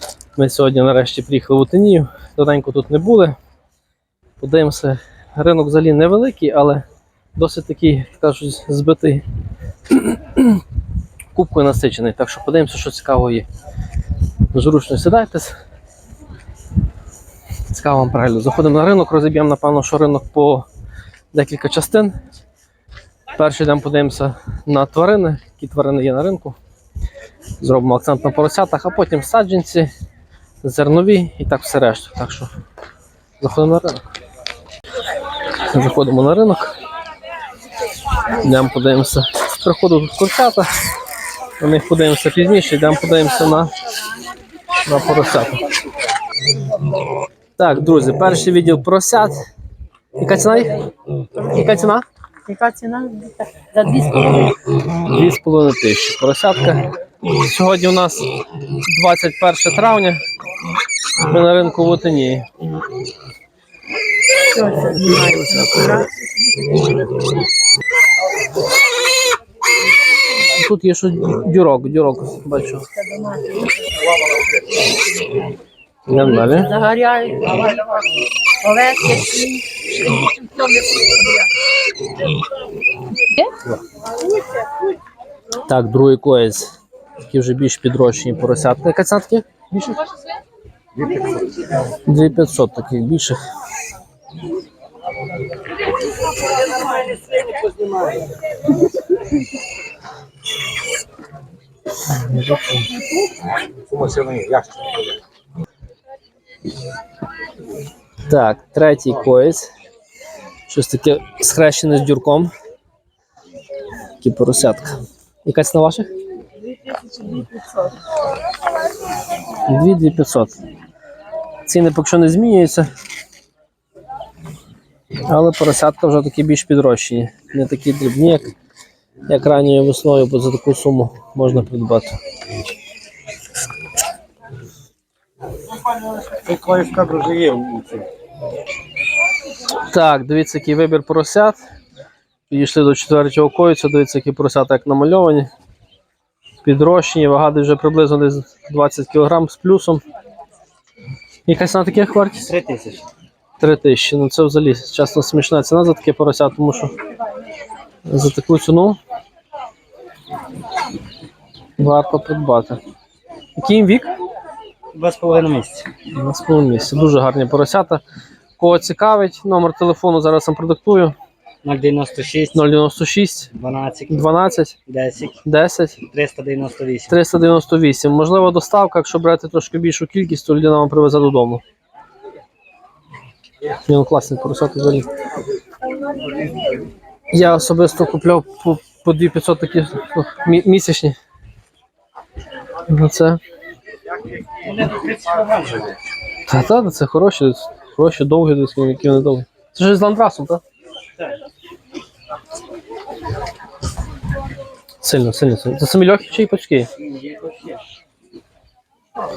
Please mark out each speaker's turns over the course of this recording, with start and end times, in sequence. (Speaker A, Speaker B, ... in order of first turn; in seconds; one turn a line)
Speaker A: 0.3-3.4
Speaker A: 4.4-6.8
Speaker A: 7.3-9.2
Speaker A: 9.9-10.6
Speaker A: 11.3-13.5
Speaker A: 14.5-15.6
Speaker A: 17.7-20.7
Speaker A: 21.3-22.1
Speaker A: 23.3-26.6
Speaker A: 27.6-29.9
Speaker A: 30.6-32.5
Speaker A: 33.4-34.1
Speaker A: 35.6-36.7
Speaker A: 38.4-40.7
Speaker A: 41.6-43.7
Speaker A: 44.9-45.7
Speaker A: 47.6-49.4
Speaker A: 50.2-50.8
Speaker A: 51.4-52.0
Speaker B: 52.5-54.6
Speaker A: 55.0-58.3
Speaker A: 58.8-60.2
Speaker A: 61.3-62.5
Speaker B: 64.5-66.2
Speaker A: 64.9-66.0
Speaker A: 70.4-72.9
Speaker B: 72.9-73.8
Speaker A: 76.1-76.7
Speaker B: 76.2-78.1
Speaker B: 78.6-81.5
Speaker A: 85.6-90.0
Speaker A: 91.9-93.4
Speaker A: 102.2-102.8
Speaker C: 104.0-104.6
Speaker A: 108.3-109.7
Speaker A: 110.7-112.5
Speaker A: 114.2-116.1
Speaker B: 117.2-117.5
Speaker A: 119.6-120.5
Speaker A: 121.7-122.9
Speaker A: 125.3-128.5
Speaker A: 129.3-132.2
Speaker C: 136.2-138.0
Speaker A: 139.9-141.6
Speaker A: 142.5-145.5
Speaker A: 146.6-150.0
Speaker A: 151.4-152.5
Speaker C: 152.5-153.0
Speaker A: 153.6-156.9
Speaker A: 158.1-159.0
Speaker A: 161.8-162.8
Speaker A: 163.6-164.1
Speaker C: 164.9-165.9
Speaker A: 166.1-168.0
Speaker A: 168.6-171.1
Speaker C: 171.6-172.6
Speaker A: 172.5-173.5
Speaker C: 173.5-174.3
Speaker A: 174.1-174.8
Speaker C: 174.9-175.3
Speaker A: 175.4-176.0
Speaker C: 176.1-177.1
Speaker A: 177.1-181.6
Speaker A: 183.8-185.1
Speaker A: 187.3-191.2
Speaker A: 192.9-193.4
Speaker A: 196.5-200.6
Speaker A: 205.0-206.9
Speaker C: 207.0-207.8